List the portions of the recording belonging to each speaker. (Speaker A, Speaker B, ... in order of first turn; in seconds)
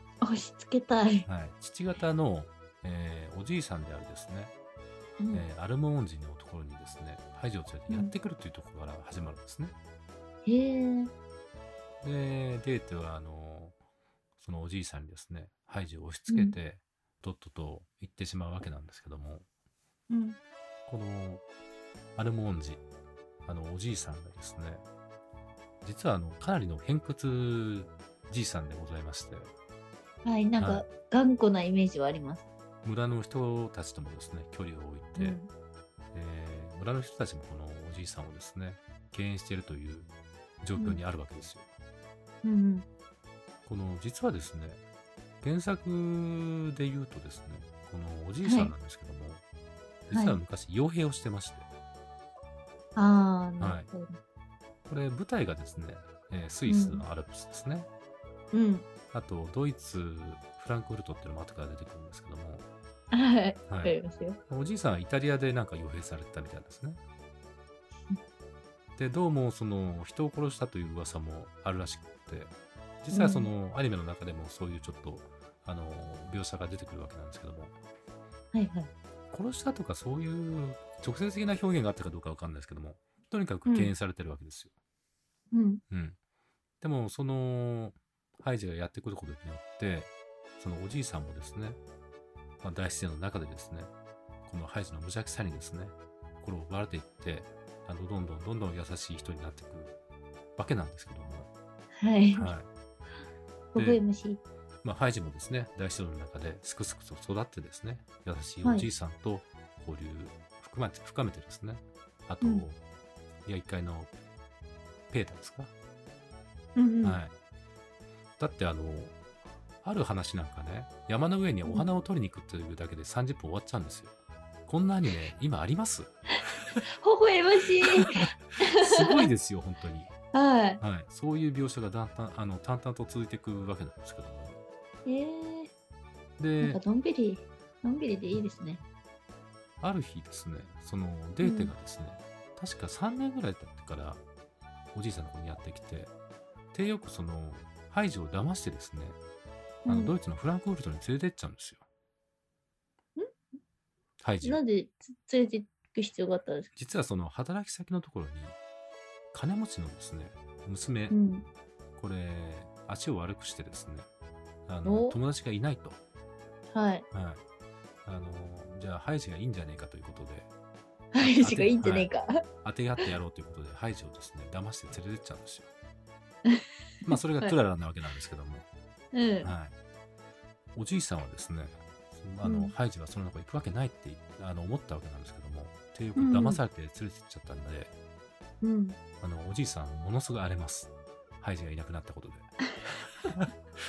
Speaker A: 0.2-1.3, 5.2-5.4, 10.4-11.1, 16.3-16.6, 20.1-20.4, 30.2-32.5, 35.1-35.5, 42.4-42.9, 48.4-48.7, 50.1-50.4, 53.0-54.2, 56.7-57.0, 58.5-58.9, 63.1-64.4, 73.1-73.5, 78.5-78.9, 83.7-83.9, 85.5-85.8, 102.0-102.5, 103.7-104.4, 108.6-108.9, 116.8-117.2, 127.0-129.2, 130.3-130.8, 135.1-135.7, 136.6-138.8, 141.4-141.7, 149.8-150.1, 154.4-156.7, 161.1-161.4, 164.8-165.2, 166.7-167.0, 171.1-172.3, 179.1-179.5, 182.4-182.7, 186.2-186.6, 188.6-189.0
Speaker B: 1.2-4.5, 5.3-9.7, 12.0-13.8, 14.4-19.4, 20.9-21.4, 22.1-22.8, 23.4-24.8, 25.8-29.5, 30.6-30.9, 32.8-35.4, 36.1-40.1, 40.6-41.7, 43.6-44.8, 45.4-49.4, 50.1-51.7, 53.6-53.9, 54.9-57.9, 59.1-62.6, 63.7-64.0, 64.5-67.0, 69.0-77.7, 79.3-84.7, 85.9-86.2, 86.8-91.8, 92.6-93.9, 94.5-100.0, 100.6-101.5, 102.3-102.7, 103.7-104.0, 104.8-112.8, 113.5-114.1, 115.1-115.7, 117.0-117.3, 118.4-119.2, 119.8-124.1, 124.7-126.1, 127.9-128.2, 128.8-130.1, 130.8-134.6, 136.4-136.8, 139.8-144.2, 144.9-146.1, 146.7-149.2, 149.8-151.8, 154.2-154.6, 156.7-158.6, 159.3-161.1, 162.0-164.1, 164.7-166.0, 167.1-167.4, 168.1-170.5, 171.2-172.1, 172.6-175.7, 177.1-178.7, 179.4-179.7, 180.7-187.9, 189.2-192.5